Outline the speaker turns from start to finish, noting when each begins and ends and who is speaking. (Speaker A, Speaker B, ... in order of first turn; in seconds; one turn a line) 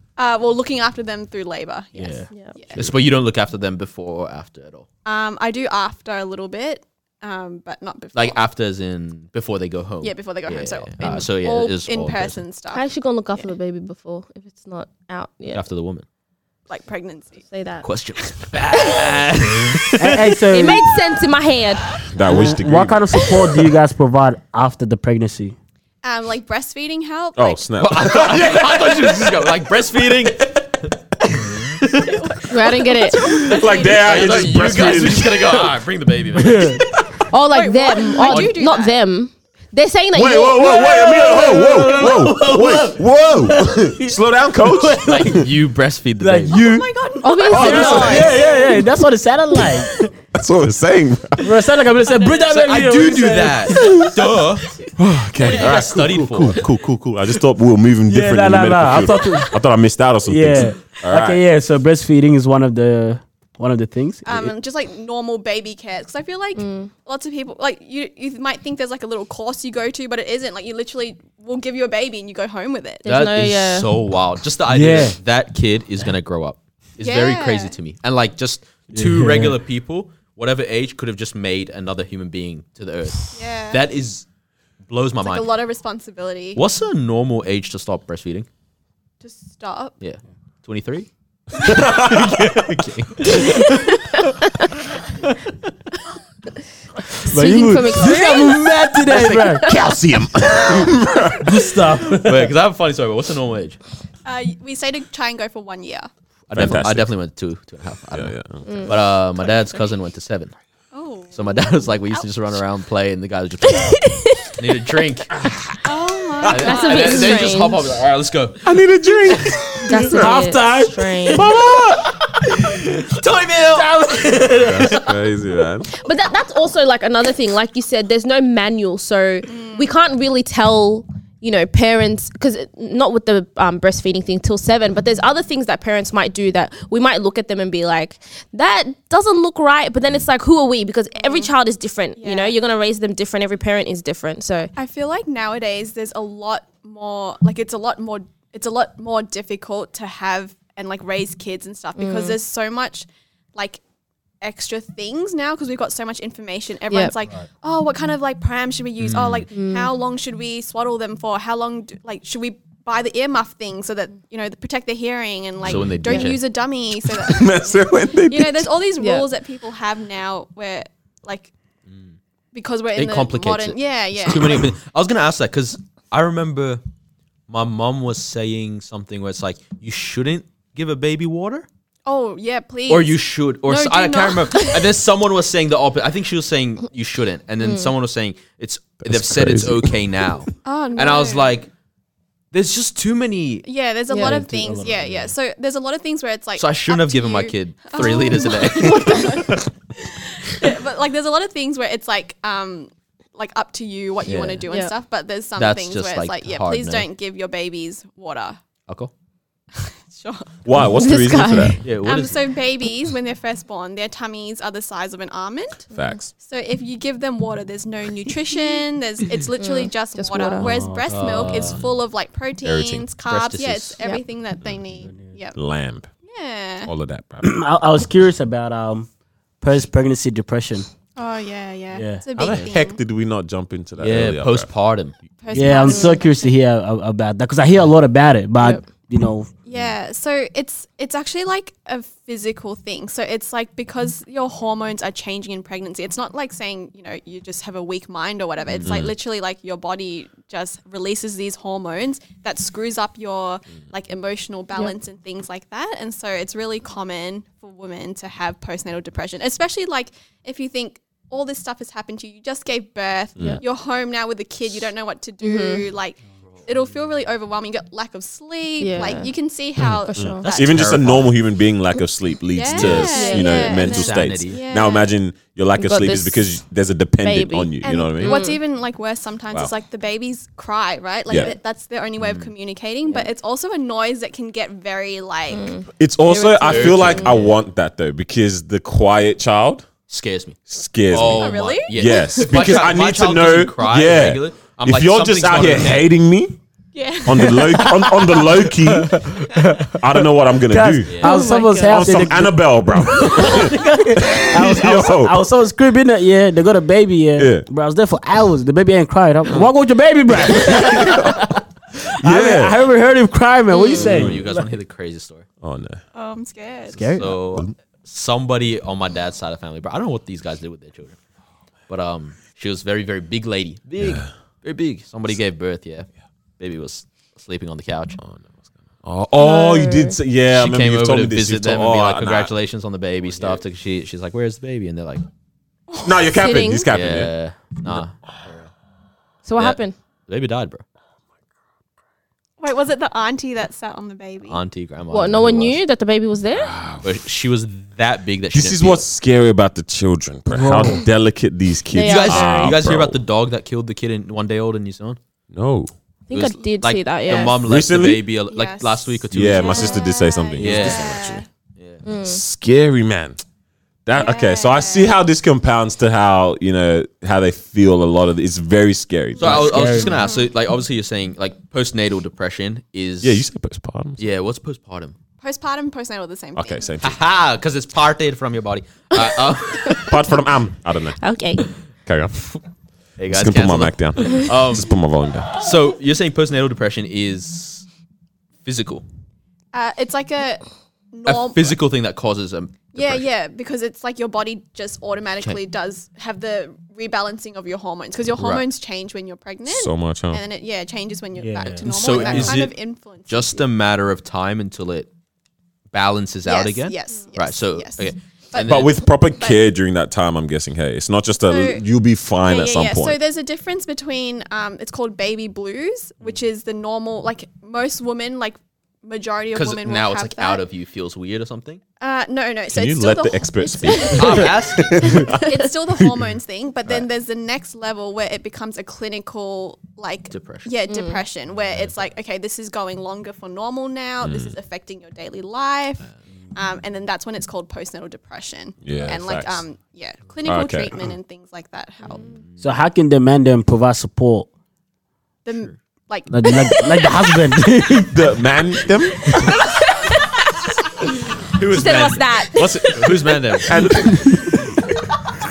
Speaker A: 0.2-2.9
Speaker B: 1.9-2.3
Speaker C: 2.7-4.9
Speaker A: 5.0-8.4
Speaker C: 8.1-12.4
Speaker A: 10.0-12.8
Speaker D: 12.7-15.6
Speaker C: 15.5-16.0
Speaker A: 16.7-17.4
Speaker D: 17.5-17.9
Speaker C: 17.8-20.1
Speaker D: 18.7-19.0
Speaker B: 19.9-20.8
Speaker D: 20.5-21.8
Speaker E: 22.1-23.4
Speaker B: 22.2-25.6
Speaker A: 26.0-27.6
Speaker E: 27.4-29.5
Speaker C: 27.8-32.1
Speaker A: 32.0-35.0
Speaker D: 32.5-33.3
Speaker E: 33.2-35.7
Speaker C: 33.8-36.9
Speaker B: 36.4-36.8
Speaker D: 37.3-41.0
Speaker A: 37.5-39.0
Speaker C: 38.2-38.5
Speaker E: 40.1-45.5
Speaker B: 40.6-45.4
Speaker C: 45.0-46.8
Speaker B: 46.2-50.0
Speaker A: 46.6-48.8
Speaker D: 47.2-48.4
Speaker E: 50.3-51.5
Speaker B: 51.4-53.8
Speaker C: 52.4-54.7
Speaker E: 53.8-54.1
Speaker E: 55.0-61.4
Speaker A: 55.4-55.9
Speaker C: 55.5-56.6
Speaker B: 58.1-59.5
Speaker B: 60.2-64.5
Speaker A: 64.2-73.0
Speaker D: 66.6-66.9
Speaker D: 73.0-73.9
Speaker C: 73.0-84.2
Speaker B: 74.7-75.2
Speaker A: 77.0-77.8
Speaker B: 78.9-79.6
Speaker A: 83.3-83.8
Speaker C: 84.9-85.5
Speaker A: 85.2-86.6
Speaker C: 86.5-88.5
Speaker A: 89.2-89.9
Speaker C: 90.0-91.1
Speaker E: 91.6-92.7
Speaker C: 91.6-93.7
Speaker D: 93.3-94.2
Speaker D: 97.3-98.8
Speaker B: 97.3-99.7
Speaker E: 99.1-101.8
Speaker B: 101.4-102.5
Speaker C: 102.1-103.8
Speaker A: 104.2-106.1
Speaker C: 106.5-110.5
Speaker E: 106.5-107.1
Speaker E: 108.1-108.7
Speaker D: 108.7-108.9
Speaker A: 110.9-112.2
Speaker C: 111.3-114.0
Speaker D: 113.7-114.5
Speaker C: 114.6-115.3
Speaker A: 115.8-117.5
Speaker C: 116.5-118.7
Speaker D: 116.6-117.8
Speaker E: 118.6-120.3
Speaker D: 119.9-121.5
Speaker B: 119.9-120.9
Speaker E: 121.3-122.1
Speaker C: 122.6-125.0
Speaker B: 123.7-125.0
Speaker E: 124.6-125.9
Speaker D: 126.0-144.7
Speaker A: 129.5-129.9
Speaker A: 141.2-141.5
Speaker A: 142.2-142.6
Speaker A: 144.7-153.8
Speaker D: 152.0-152.4
Speaker A: 154.4-171.5
Speaker C: 159.0-159.5
Speaker D: 159.5-159.9
Speaker C: 165.6-166.4
Speaker D: 166.1-166.3
Speaker E: 167.1-168.7
Speaker D: 169.0-169.3
Speaker C: 171.9-172.1
Speaker A: 172.5-174.7
Speaker C: 172.9-176.8
Speaker C: 177.5-181.7
Speaker A: 182.1-184.8
Speaker C: 182.9-191.7
Speaker D: 187.6-187.9
Speaker E: 189.0-190.3
Speaker A: 190.6-191.6
Speaker C: 192.5-193.7
Speaker A: 193.7-208.6
Speaker D: 194.1-194.4
Speaker B: 194.1-195.3
Speaker C: 196.6-199.5
Speaker C: 204.2-204.6
Speaker D: 204.7-204.9
Speaker C: 205.6-207.1
Speaker A: 209.7-210.5
Speaker E: 210.6-211.8
Speaker D: 210.9-211.8
Speaker C: 211.8-212.3
Speaker A: 212.0-215.8
Speaker E: 215.9-216.3
Speaker D: 215.9-216.2
Speaker A: 216.4-225.6
Speaker D: 219.6-220.7
Speaker B: 220.6-221.7
Speaker C: 221.1-221.9
Speaker E: 222.6-223.1
Speaker C: 223.2-224.0
Speaker E: 225.6-226.1
Speaker A: 226.2-226.9
Speaker E: 226.8-227.5
Speaker B: 227.4-229.1
Speaker B: 229.6-230.8
Speaker A: 231.2-233.0
Speaker B: 231.9-232.2
Speaker E: 232.3-234.7
Speaker C: 234.0-235.1
Speaker A: 235.4-236.5
Speaker B: 235.5-239.5
Speaker D: 235.8-236.2
Speaker A: 239.7-270.4
Speaker C: 248.7-249.0
Speaker E: 248.8-249.1
Speaker D: 265.4-265.9
Speaker D: 268.8-269.3
Speaker E: 269.9-278.4
Speaker D: 269.9-270.5
Speaker C: 270.4-271.3
Speaker A: 272.5-275.1
Speaker C: 272.7-273.1
Speaker D: 273.0-274.1
Speaker C: 273.8-274.6
Speaker D: 275.8-276.5
Speaker D: 277.2-278.6
Speaker A: 277.8-285.8
Speaker E: 281.3-281.5
Speaker C: 282.2-282.5
Speaker D: 285.5-287.4
Speaker E: 286.0-289.9
Speaker C: 286.6-287.5
Speaker C: 290.1-290.6
Speaker E: 290.7-296.6
Speaker C: 291.1-296.1
Speaker A: 291.2-292.2
Speaker A: 296.9-298.1
Speaker E: 297.2-301.2
Speaker B: 297.7-298.1
Speaker B: 298.9-302.6
Speaker C: 301.1-301.4
Speaker D: 301.2-302.0
Speaker E: 301.8-305.4
Speaker B: 303.1-311.6
Speaker E: 307.4-307.6
Speaker E: 310.5-311.5
Speaker B: 312.2-314.6
Speaker E: 312.2-312.8
Speaker D: 313.7-314.2
Speaker C: 314.0-315.4
Speaker E: 314.0-314.5
Speaker E: 315.6-316.0
Speaker A: 316.1-317.0
Speaker B: 316.9-317.4
Speaker C: 317.0-321.2
Speaker C: 321.9-328.2
Speaker E: 324.0-324.3
Speaker E: 328.2-328.4
Speaker E: 329.0-332.5
Speaker D: 329.4-330.1
Speaker C: 330.5-335.2
Speaker A: 335.9-336.2
Speaker E: 336.0-337.3
Speaker D: 336.3-336.9
Speaker C: 336.9-338.7
Speaker D: 339.4-339.9
Speaker C: 339.6-340.8
Speaker A: 342.6-344.6
Speaker C: 344.5-345.8
Speaker D: 345.1-346.7
Speaker E: 346.5-347.2
Speaker C: 347.0-349.0
Speaker E: 348.5-353.2
Speaker B: 350.5-351.0
Speaker D: 351.9-352.8
Speaker C: 352.0-355.2
Speaker E: 355.5-355.9
Speaker D: 356.3-357.6
Speaker C: 356.3-360.0
Speaker E: 357.6-358.2
Speaker A: 358.5-361.4
Speaker E: 359.3-361.4
Speaker C: 360.6-362.0
Speaker D: 362.0-362.4
Speaker E: 362.2-363.4
Speaker E: 364.1-370.0
Speaker A: 364.1-365.2
Speaker C: 369.4-373.4
Speaker B: 369.4-370.2
Speaker A: 369.9-370.5
Speaker E: 373.2-374.2
Speaker C: 374.2-375.1
Speaker A: 375.4-377.0
Speaker E: 376.6-377.2
Speaker C: 377.0-380.1
Speaker E: 380.0-381.2
Speaker D: 381.2-381.6
Speaker E: 382.1-382.6
Speaker C: 383.2-384.9
Speaker E: 383.3-385.6
Speaker C: 385.5-387.9
Speaker C: 388.6-389.0
Speaker A: 389.7-391.8
Speaker C: 391.2-393.3
Speaker A: 392.9-403.6
Speaker C: 398.4-398.6
Speaker E: 399.6-400.4
Speaker B: 401.4-402.6
Speaker C: 401.8-402.8
Speaker C: 403.3-405.1
Speaker C: 405.9-409.0
Speaker A: 406.4-409.6
Speaker E: 408.6-413.2
Speaker A: 411.5-411.8
Speaker A: 412.4-420.6
Speaker C: 419.5-421.8
Speaker A: 422.0-442.3
Speaker E: 422.7-425.7
Speaker C: 424.1-425.3
Speaker C: 430.3-430.7
Speaker D: 430.9-431.2
Speaker E: 434.2-434.5
Speaker E: 438.8-439.6
Speaker E: 440.4-441.0
Speaker C: 442.3-442.6
Speaker B: 442.6-444.5
Speaker A: 445.4-447.1
Speaker B: 446.3-448.2
Speaker E: 448.1-449.4
Speaker C: 451.5-453.7
Speaker D: 451.7-452.9
Speaker E: 453.6-454.6